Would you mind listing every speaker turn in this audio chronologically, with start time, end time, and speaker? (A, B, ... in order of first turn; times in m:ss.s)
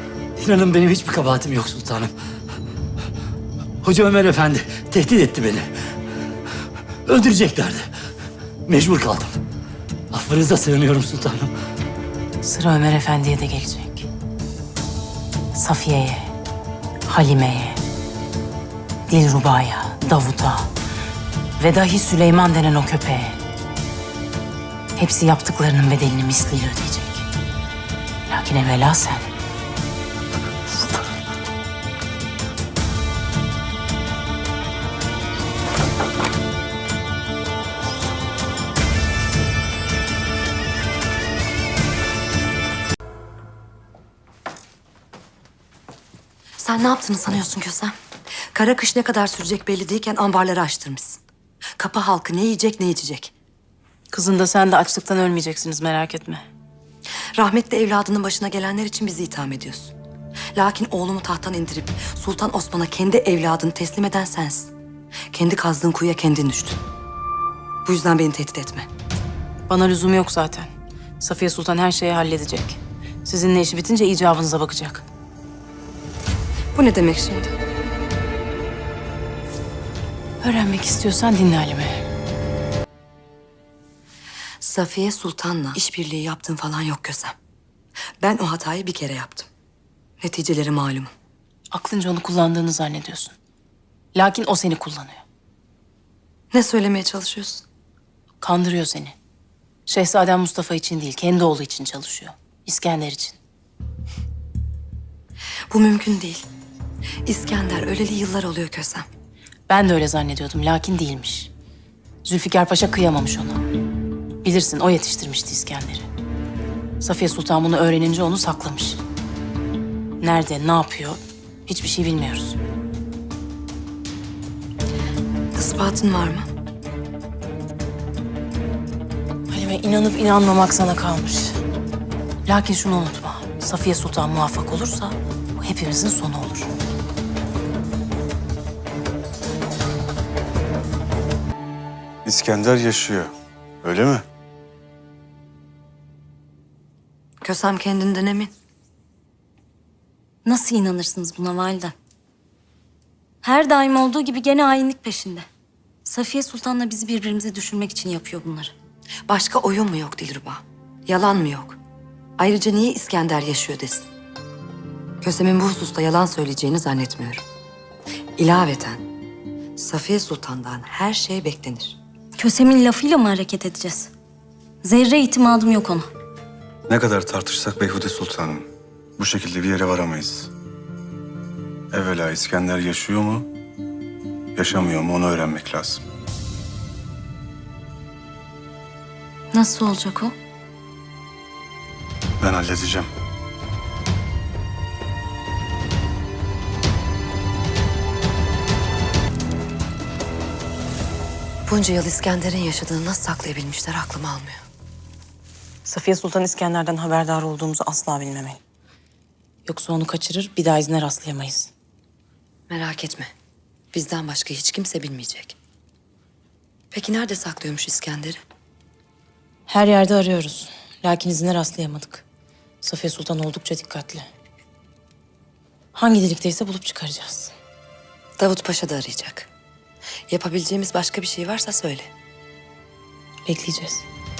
0:00.4-0:02.1 A
0:03.8-0:05.7 A
0:07.0-0:07.9 A
0:08.7-0:09.4 A
0:10.1-0:11.5 A
0:12.4-0:14.1 B
0:15.5-0:16.3 B
0:17.1-0:17.8 B
0:19.1-0:20.7 B
0:21.6-0:23.4 B
0:25.0-0:27.2 B
0:28.3-0:29.3 B
0:46.6-0:47.9 C
0:48.5-0:51.2 C
0:51.8-0:53.3 C
0:54.1-0:56.4 B
0:57.4-0:59.9 C
1:00.5-1:04.7 C
1:05.3-1:06.8 C
1:07.8-1:08.9 C
1:09.7-1:15.0 B
1:16.7-1:17.5 C
1:20.4-1:22.0 B
1:24.6-1:27.3 C
1:28.2-1:29.5 C
1:30.2-1:31.1 C
1:31.7-1:33.4 B
1:34.1-1:35.2 B
1:36.5-1:37.6 C
1:38.4-1:39.2 B
1:39.9-1:43.4 B
1:45.7-1:46.5 C
1:47.2-1:49.1 C
1:49.7-1:51.5 B
1:52.2-1:53.6 B
1:54.4-1:56.1 B
1:57.0-1:59.0 B
2:00.2-2:02.6 B
2:05.5-2:06.5 C
2:09.5-2:11.6 B
2:12.4-2:16.7 B
2:22.2-2:24.2 D
2:27.4-2:28.5 C
2:30.4-2:31.9 E
2:33.4-2:35.4 E
2:36.0-2:38.7 E
2:39.3-2:41.8 C
2:42.4-2:44.1 C
2:45.2-2:47.4 C
2:48.4-2:49.0 C
2:49.8-2:52.0 C
2:52.4-2:54.1 E
2:54.8-2:56.1 E
2:56.9-3:00.5 D
3:01.9-3:03.5 D
3:04.6-3:06.0 D
3:09.5-3:10.3 E
3:12.4-3:13.1 D
3:21.7-3:24.6 C
3:25.8-3:28.6 B
3:29.6-3:31.7 B
3:32.7-3:33.3 C
3:33.9-3:35.6 C
3:36.9-3:38.4 C
3:39.7-3:42.2 B
3:42.8-3:44.3 B
3:45.9-3:47.5 B
3:48.4-3:49.5 C
3:50.3-3:52.1 C
3:53.4-3:54.0 B